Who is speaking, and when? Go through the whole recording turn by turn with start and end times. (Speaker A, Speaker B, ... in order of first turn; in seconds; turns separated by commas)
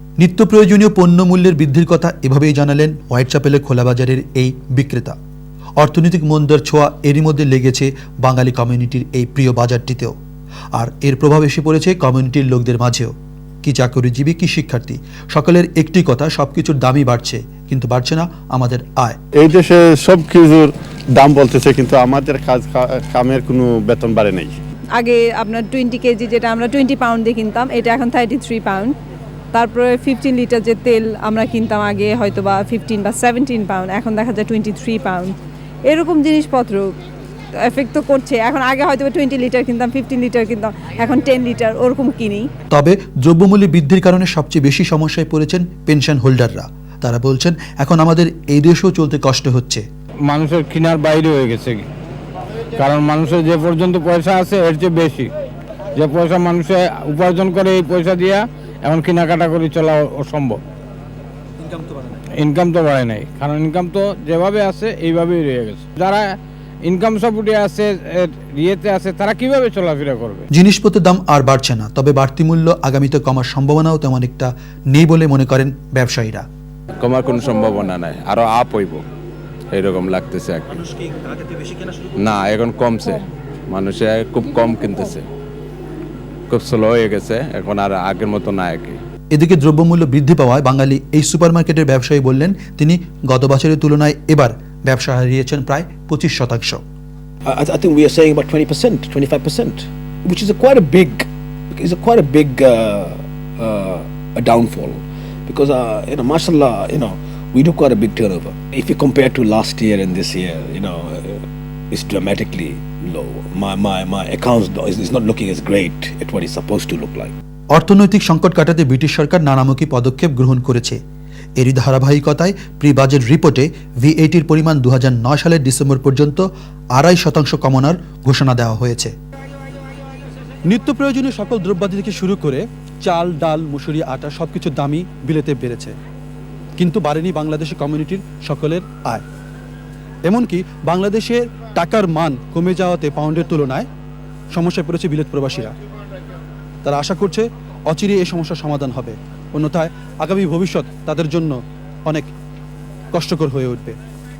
Speaker A: 0.2-5.2, Speaker A: 5.8-10.2, Speaker A: 10.8-13.1, Speaker A: 13.6-19.2, Speaker B: 19.4-24.6, Speaker C: 25.0-28.9, Speaker C: 29.5-35.4, Speaker C: 35.9-36.9, Speaker C: 37.6-42.5, Speaker A: 42.7-49.8, Speaker D: 50.3-51.9, Speaker D: 52.8-55.3, Speaker D: 56.0-60.6, Speaker A: 61.6-62.2, Speaker D: 62.4-70.5, Speaker A: 70.5-76.5, Speaker E: 77.0-79.0, Speaker E: 79.7-80.7, Speaker A: 80.7-82.1, Speaker E: 82.2-85.2, Speaker E: 86.5-89.0, Speaker A: 89.3-96.8, Speaker F: 97.5-117.3, Speaker A: 117.7-121.0, Speaker A: 121.6-129.1, Speaker A: 130.7-135.9, Speaker A: 136.8-139.2, Speaker A: 140.2-143.9, Speaker A: 144.5-145.7, Speaker A: 146.8-152.3, Speaker A: 153.1-154.0